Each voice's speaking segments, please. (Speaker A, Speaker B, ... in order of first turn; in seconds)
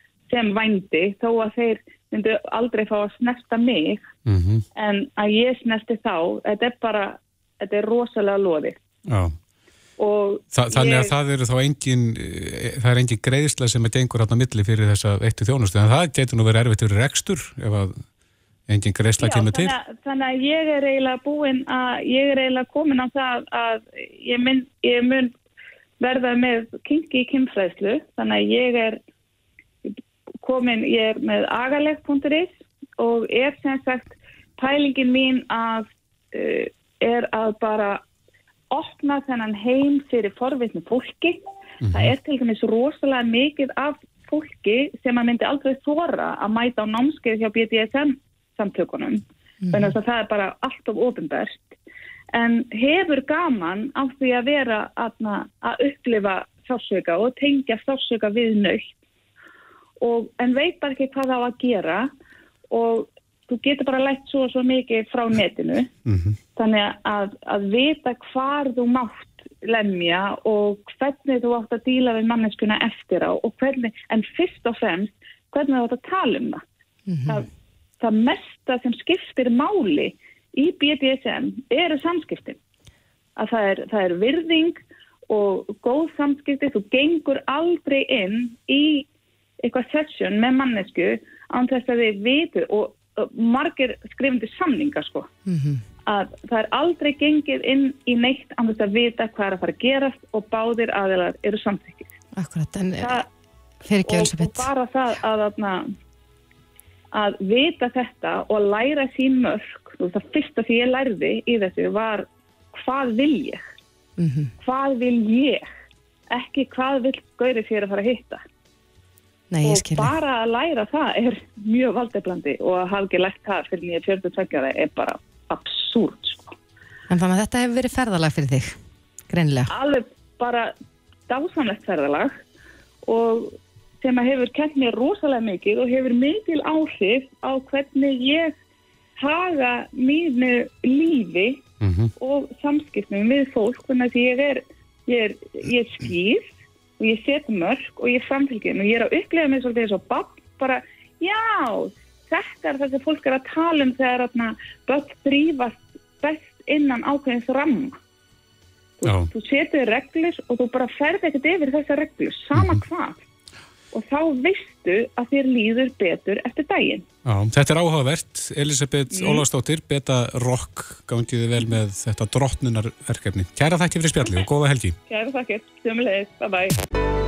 Speaker A: 0.3-4.1, 4.8-8.8, 10.0-11.1, 19.2-25.3, 26.0-29.0, 30.4-38.0, 38.7-41.4, 41.9-51.8, 52.3-58.9, 60.0-62.1, 62.7-65.9, 66.6-76.6, 78.0-82.6, 83.4-89.1, 89.6-95.3, 96.1-102.2, 103.0-103.3, 104.1-105.9, 107.1-113.6, 114.6-115.7, 116.3-118.4, 119.6-126.5, 129.7-130.7, 131.3-132.4, 133.1-138.6, 139.2-141.6, 142.2-158.0, 159.0-163.2, 163.9-167.1, 169.1-169.4, 175.1-176.8
Speaker B: 4.3-4.7, 9.1-9.4, 10.5-18.0, 18.7-19.7, 41.8-42.1, 66.1-66.4, 141.8-142.1, 159.0-159.3, 162.6-162.8, 167.3-175.0
Speaker C: 77.1-77.4, 95.5-95.8, 102.4-103.2, 103.8-104.7, 114.2-114.5, 119.5-120.1, 127.1-128.8, 129.3-129.7